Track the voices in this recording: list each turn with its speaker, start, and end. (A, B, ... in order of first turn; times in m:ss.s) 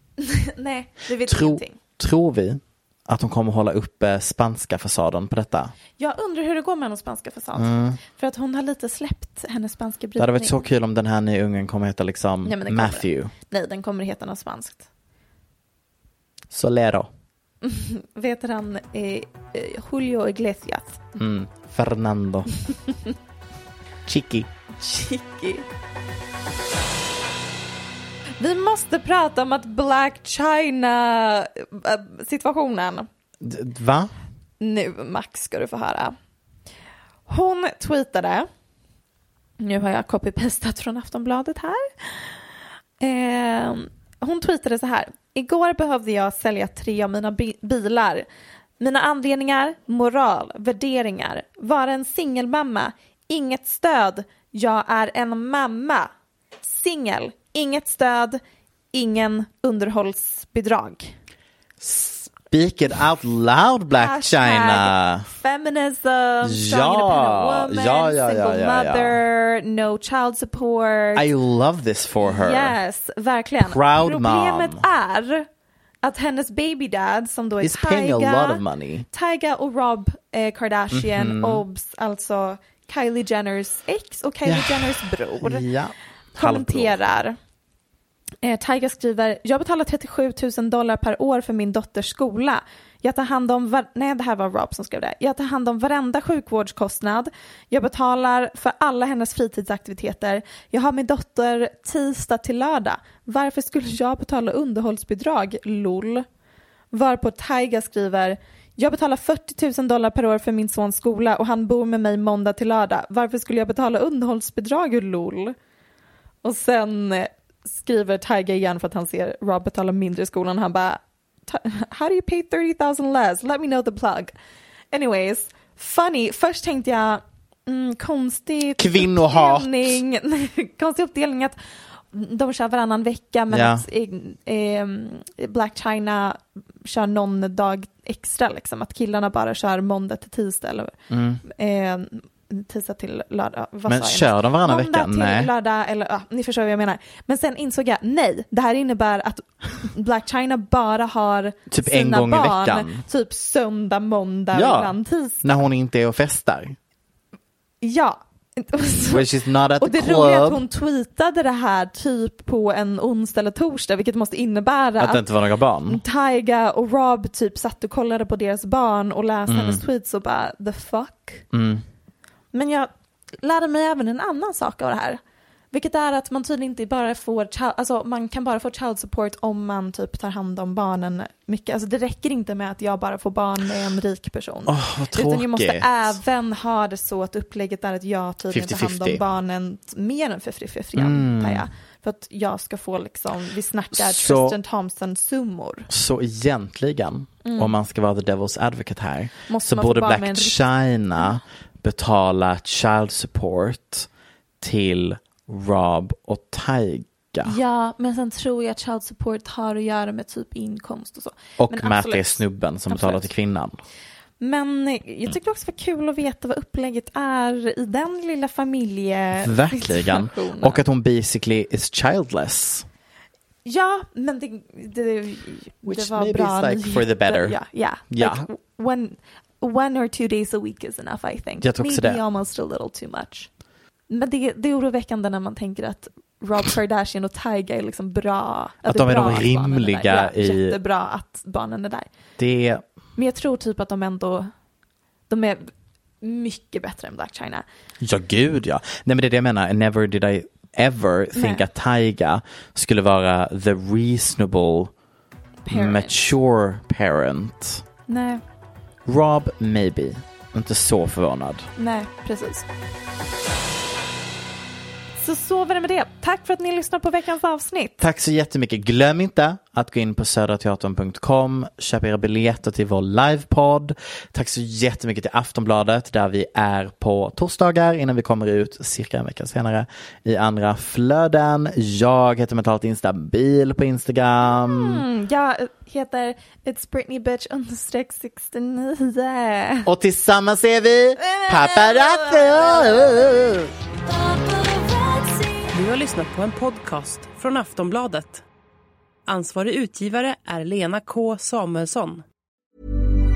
0:00.2-0:01.8 A
0:01.2-0:05.7 B
0:06.0-0:10.6 A
0:07.6-0:08.0 B
0:10.2-0:13.3 B
0:12.4-0:14.9 A
0:16.5-0:17.1 B
0:17.6-0:21.1 A
0:21.2-0:22.5 B
0:24.1-0:24.5 B
0:24.8-0:25.7 A
0:28.4-0:33.1 A
0:33.4-0:34.1 B
0:34.6-0:36.2 A
0:37.3-0:38.5 A
0:39.6-0:42.4 A
0:43.0-0:48.3 A
0:48.8-0:56.1 A
0:56.6-0:58.4 A
0:58.9-1:01.2 A
1:01.8-1:05.3 B
1:04.0-1:11.3 A
1:06.4-1:09.2 B
1:11.2-1:12.8 B
1:12.2-1:15.5 A
1:13.6-1:14.8 B
1:16.0-1:25.7 A
1:17.6-1:19.1 B
1:20.9-1:21.6 B
1:24.4-1:27.0 B
1:26.4-1:27.4 A
1:28.4-1:46.3 A
1:46.9-1:55.6 A
1:56.4-2:04.3 A
2:04.9-2:11.6 A
2:08.8-2:09.9 B
2:12.1-2:35.6 A
2:13.5-2:13.8 B
2:21.1-2:21.4 B
2:23.9-2:25.5 B
2:31.7-2:33.0 B
2:34.5-2:36.8 B
2:37.8-2:45.2 A
2:39.1-2:40.6 B
2:45.0-2:46.0 B
2:45.9-2:51.4 A
2:49.5-2:49.8 B
2:51.5-2:51.8 B
2:52.5-2:52.9 A
2:53.4-2:55.2 A
2:55.7-3:15.9 A
3:04.7-3:06.2 B
3:08.5-3:09.2 B
3:11.0-3:11.7 B
3:13.9-3:14.6 B
3:15.9-3:24.1 B
3:17.4-3:17.7 A
3:19.5-3:20.6 A
3:24.6-3:27.6 B
3:27.4-3:33.2 A
3:31.6-3:33.8 B
3:34.4-3:40.8 A
3:39.4-3:42.9 B
3:43.6-3:53.5 A
3:45.8-3:47.6 B
3:48.1-3:48.5 B
3:51.6-3:52.2 B
3:54.1-4:02.1 A
3:58.8-4:00.8 B
4:02.4-4:02.8 B
4:03.2-4:04.5 A
4:05.3-4:05.7 A
4:06.2-4:07.6 A
4:08.0-4:14.9 B
4:11.4-4:11.6 A
4:15.7-4:16.2 A
4:15.7-4:17.8 B
4:18.1-4:18.4 A
4:19.1-4:21.7 B
4:21.8-4:22.7 A
4:25.2-4:28.0 A
4:28.0-4:45.0 B
4:44.5-4:49.9 A
4:49.9-4:53.7 B
4:51.2-4:53.1 A
4:54.3-4:55.6 A
4:55.7-4:58.4 C
4:59.3-5:02.2 C